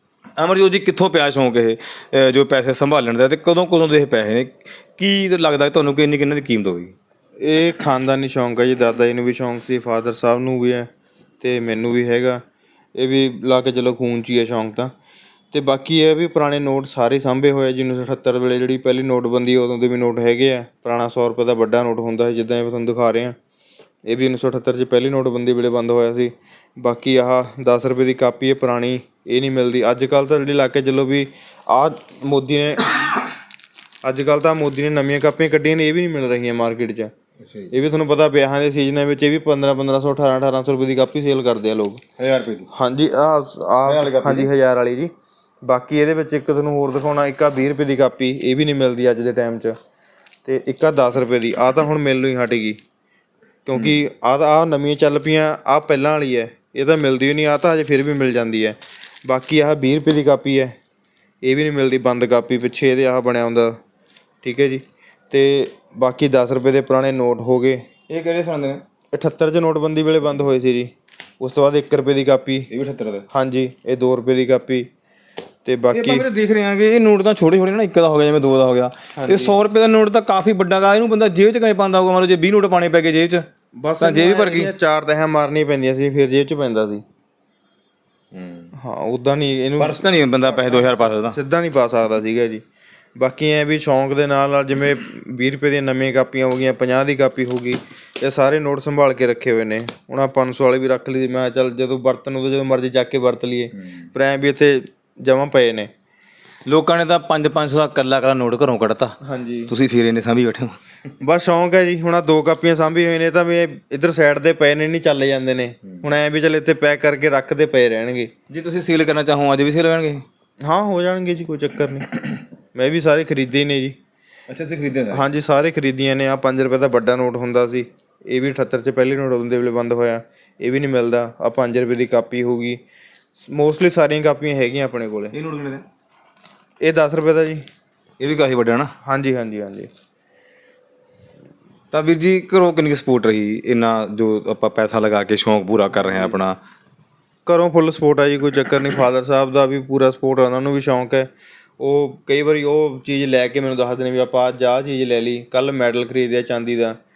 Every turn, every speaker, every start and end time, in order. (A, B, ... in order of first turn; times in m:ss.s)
0:00.4-0:07.0 A
0:07.4-0:10.9 B
0:11.4-0:12.4 B
0:13.0-0:14.9 B
0:15.5-0:23.4 B
0:24.1-0:33.0 B
0:34.0-0:37.1 B
0:37.4-0:37.7 A
0:37.7-0:42.0 B
0:42.2-0:42.7 A
0:42.7-0:45.1 B
0:43.8-0:44.5 A
0:45.6-0:49.8 B
0:50.4-0:52.8 B
0:53.7-1:00.8 B
1:01.4-1:03.8 B
1:04.4-1:07.8 B
1:08.1-1:08.8 A
1:09.1-1:12.7 B
1:12.7-1:13.3 A
1:13.3-1:14.9 B
1:15.6-1:16.2 B
1:15.9-1:23.4 A
1:19.2-1:19.6 B
1:23.8-1:27.0 B
1:24.0-1:24.7 A
1:28.3-1:28.7 A
1:28.8-1:32.6 B
1:29.8-1:31.4 A
1:33.2-1:45.9 B
1:46.7-1:50.8 A
1:49.2-1:49.7 B
1:51.2-1:58.3 B
1:58.5-2:00.2 A
2:00.6-2:02.2 B
2:02.7-2:04.0 B
2:04.5-2:05.2 A
2:05.1-2:12.8 B
2:13.4-2:15.4 B
2:15.3-2:15.8 A
2:16.8-2:17.6 B
2:18.2-2:18.9 A
2:19.0-2:19.9 B
2:21.9-2:26.6 A
2:25.9-2:26.4 B
2:27.5-2:37.0 B